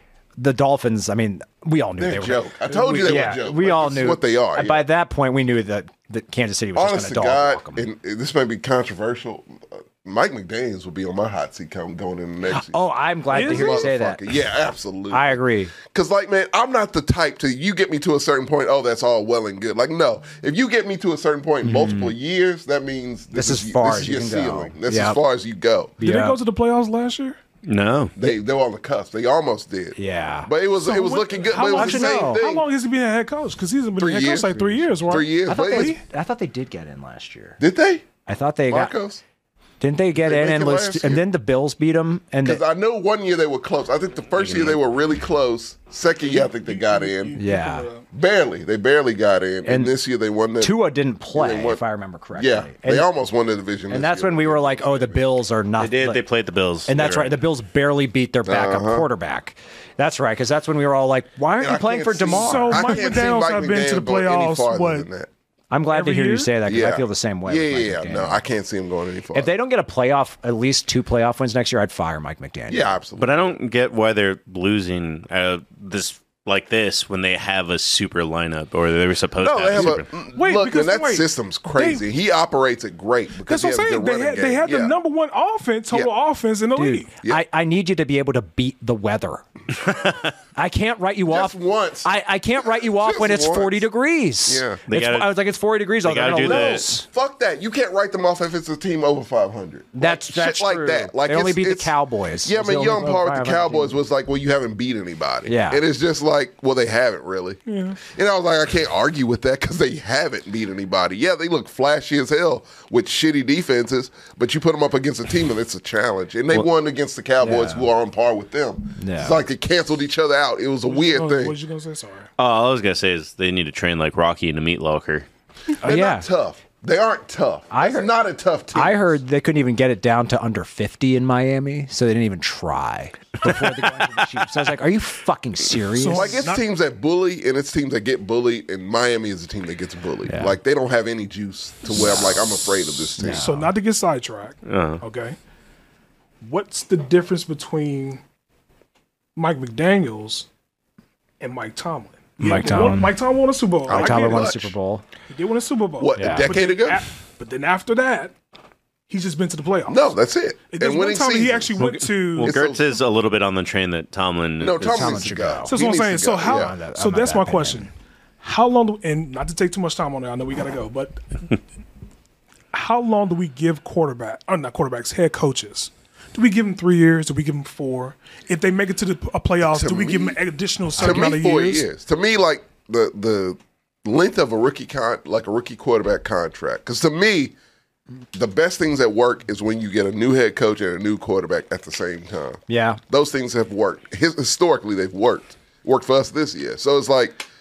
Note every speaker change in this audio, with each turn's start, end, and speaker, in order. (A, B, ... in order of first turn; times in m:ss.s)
0:00.4-0:07.9 A
0:02.0-0:04.8 B
0:06.8-0:12.7 B
0:12.5-0:14.2 A
0:13.3-0:26.0 B
0:13.3-0:13.9 C
0:15.1-0:15.7 A
0:21.6-0:22.1 A
0:23.3-0:25.2 A
0:26.0-0:26.4 A
0:26.0-0:27.4 C
0:27.6-0:28.1 D
0:28.2-0:32.6 B
0:30.0-0:30.5 A
0:30.8-0:36.0 C
0:31.5-0:32.4 A
0:34.0-0:35.9 B
0:35.1-0:37.6 A
0:37.6-0:38.1 B
0:38.2-0:38.9 A
0:38.7-0:39.2 B
0:39.8-0:42.6 A
0:40.2-0:41.2 B
0:42.4-0:47.4 B
0:44.4-0:44.7 A
0:46.2-0:48.0 C
0:47.4-0:47.9 A
0:48.1-0:51.8 B
0:49.6-0:49.9 A
0:50.6-0:53.1 A
0:52.4-0:55.2 B
0:53.9-0:56.2 A
0:55.8-0:57.4 D
0:56.9-1:03.0 A
0:58.4-0:59.1 B
1:01.6-1:05.3 B
1:02.3-1:05.1 C
1:05.7-1:08.4 A
1:05.9-1:06.6 C
1:06.6-1:09.5 B
1:09.3-1:13.0 A
1:12.7-1:13.6 B
1:13.2-1:20.1 D
1:19.4-1:24.9 B
1:20.3-1:22.0 C
1:23.5-1:27.1 C
1:26.8-1:29.4 A
1:29.8-1:30.3 D
1:30.6-1:37.0 A
1:31.3-1:33.8 B
1:34.5-1:34.8 B
1:34.9-1:35.4 D
1:36.0-1:36.9 D
1:36.4-1:41.9 B
1:39.9-1:44.0 A
1:42.4-2:01.6 B
1:45.4-1:45.8 A
1:47.6-1:48.0 C
1:57.4-1:57.9 A
1:59.0-1:59.4 A
2:00.8-2:02.3 C
2:02.4-2:05.2 D
2:05.8-2:06.3 A
2:05.8-2:09.1 B
2:07.7-2:08.1 A
2:08.7-2:16.4 A
2:15.9-2:16.6 C
2:16.1-2:23.5 B
2:20.3-2:20.5 A
2:21.9-2:23.7 A
2:23.3-2:25.4 C
2:24.6-2:25.0 D
2:26.4-2:28.2 C
2:29.4-2:30.4 C
2:31.4-2:34.6 C
2:32.4-2:33.2 A
2:33.9-2:34.7 B
2:33.9-2:35.0 A
2:35.3-2:38.3 C
2:36.0-2:37.0 B
2:36.2-2:36.5 A
2:39.1-2:40.2 C
2:39.9-2:42.8 B
2:40.7-2:42.6 C
2:42.3-2:45.0 D
2:44.6-2:46.8 B
2:44.8-2:45.8 A
2:45.6-2:51.2 C
2:46.4-2:47.9 A
2:52.7-3:01.8 C
2:59.6-3:00.4 B
3:01.0-3:07.5 B
3:01.0-3:01.2 A
3:08.3-3:17.4 B
3:12.7-3:13.0 A